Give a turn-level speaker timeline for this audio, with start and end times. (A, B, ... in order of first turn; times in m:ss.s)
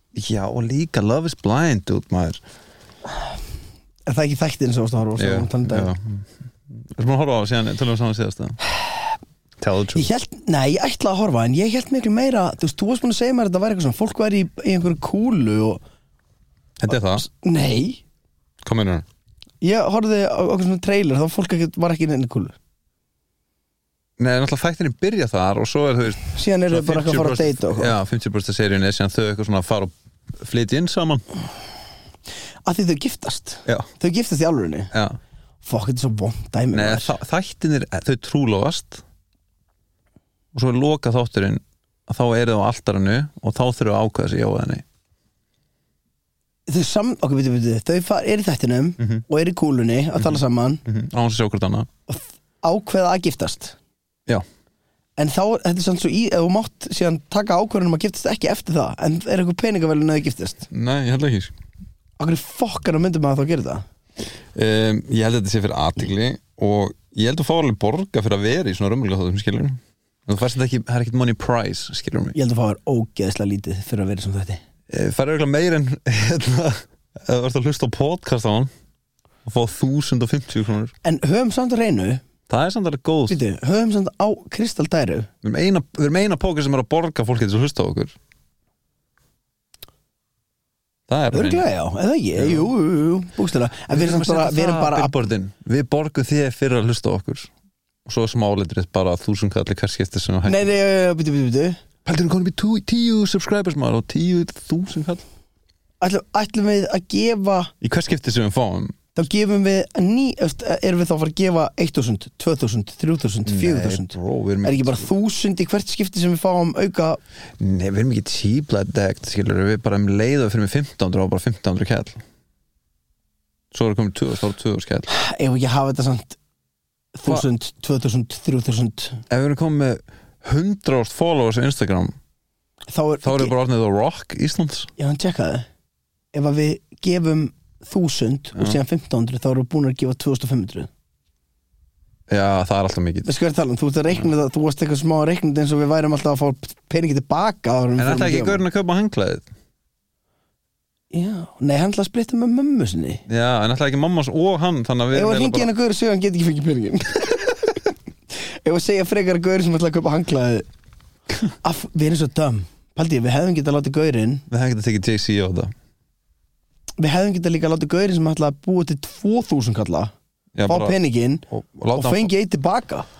0:00.1-0:02.4 A
0:04.1-0:05.9 B
0:05.2-0:08.6 A
0:09.6-0:10.1 A
0:09.9-0:15.8 B
0:16.8-0:17.2 A
0:17.1-0:18.0 B
0:18.6-0:19.0 A
0:19.6-0:22.6 B
0:24.2-0:31.2 A
0:26.3-0:27.9 B
0:32.6-0:34.9 B
0:34.9-0:35.2 A
0:35.6-0:37.1 B
0:36.7-0:39.0 A
0:40.5-0:44.8 A
0:46.7-0:50.8 B
0:50.2-0:51.9 A
0:52.1-0:53.8 B
0:55.2-1:00.7 B
1:00.7-1:01.5 A
1:02.2-1:03.8 B
1:04.5-1:12.4 A
1:12.4-1:14.6 B
1:14.9-1:18.7 A
1:19.4-1:20.9 A
1:21.0-1:22.2 B
1:22.5-1:23.4 A
1:23.3-1:25.3 B
1:25.4-1:28.2 A
1:31.1-1:31.7 A
1:31.3-1:35.1 B
1:32.4-1:32.7 A
1:33.9-1:37.5 A
1:38.0-1:40.7 A
1:40.5-1:41.8 B
1:42.0-1:45.2 A
1:46.0-1:47.7 B
1:47.8-1:49.0 A
1:49.1-1:57.2 B
1:53.4-1:55.1 A
1:57.6-2:02.2 A
2:03.7-2:05.1 A
2:05.1-2:06.4 B
2:07.1-2:09.2 B
2:09.3-2:12.2 A
2:12.9-2:13.5 B
2:13.2-2:14.9 A
2:15.0-2:15.6 B
2:16.3-2:20.9 B
2:22.3-2:23.3 A
2:23.2-2:28.6 B
2:28.0-2:29.5 A
2:31.1-2:33.2 B
2:33.3-2:35.7 A
2:35.1-2:37.8 B
2:38.5-2:40.7 B
2:41.6-2:44.4 B
2:44.5-2:45.7 A
2:47.0-2:50.1 B
2:50.5-2:51.0 A
2:50.6-2:53.0 B
2:51.5-2:52.3 A